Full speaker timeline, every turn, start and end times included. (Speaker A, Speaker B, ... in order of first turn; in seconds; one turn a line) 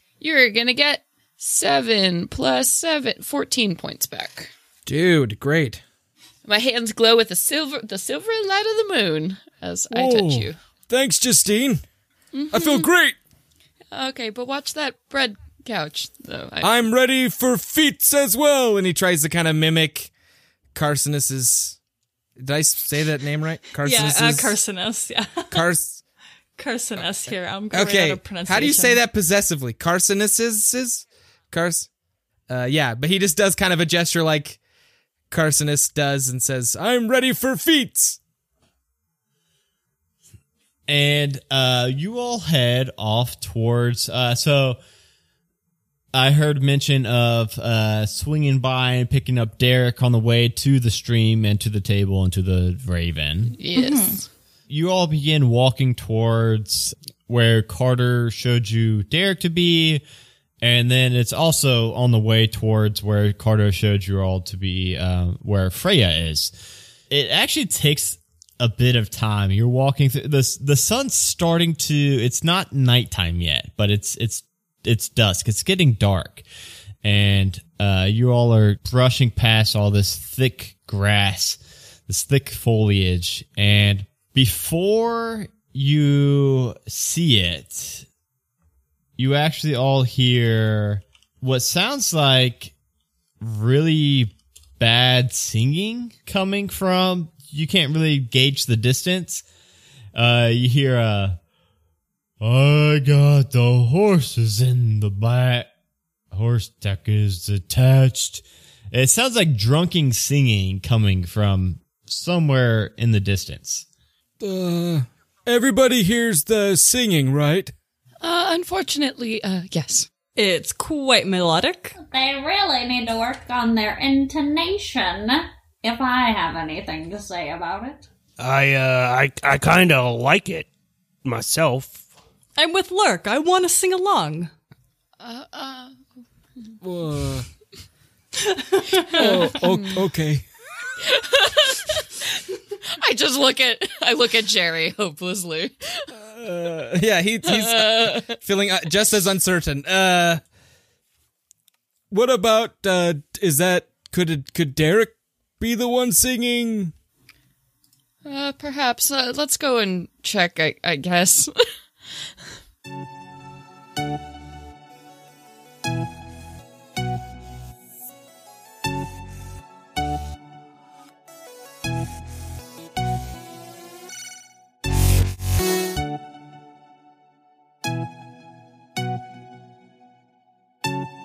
Speaker A: 0.2-4.5
Speaker B: 4.9-5.8
Speaker A: 6.5-10.6
Speaker C: 9.9-11.8
Speaker A: 12.3-12.9
Speaker C: 12.5-13.2
Speaker A: 13.9-16.7
Speaker C: 16.6-19.0
Speaker B: 19.0-20.1
Speaker B: 20.7-21.8
Speaker B: 22.4-24.6
Speaker D: 23.8-25.6
Speaker B: 25.5-26.0
Speaker D: 26.6-29.0
Speaker B: 27.7-31.9
Speaker B: 32.5-34.6
Speaker B: 35.3-38.2
Speaker C: 37.1-38.1
Speaker E: 40.9-44.8
Speaker E: 46.1-53.6
Speaker A: 53.6-54.3
Speaker D: 53.8-54.2
Speaker E: 54.7-60.0
Speaker E: 60.6-66.5
Speaker E: 67.1-76.4
Speaker E: 77.0-88.1
Speaker E: 89.2-92.7
Speaker E: 93.4-99.4
Speaker E: 100.2-101.4
Speaker E: 102.4-105.7
Speaker E: 106.3-113.8
Speaker C: 114.4-117.7
Speaker A: 118.2-120.1
Speaker D: 120.4-122.0
Speaker F: 122.0-128.0
Speaker G: 128.4-130.7
Speaker G: 131.2-132.0
Speaker D: 132.6-134.5
Speaker A: 135.2-136.0
Speaker C: 136.8-137.5
Speaker D: 138.4-139.5
Speaker C: 139.1-140.4
Speaker A: 141.0-146.1
Speaker C: 146.1-147.5
Speaker A: 147.5-148.4
Speaker B: 147.5-150.4
Speaker C: 152.1-156.9
Speaker A: 158.2-161.6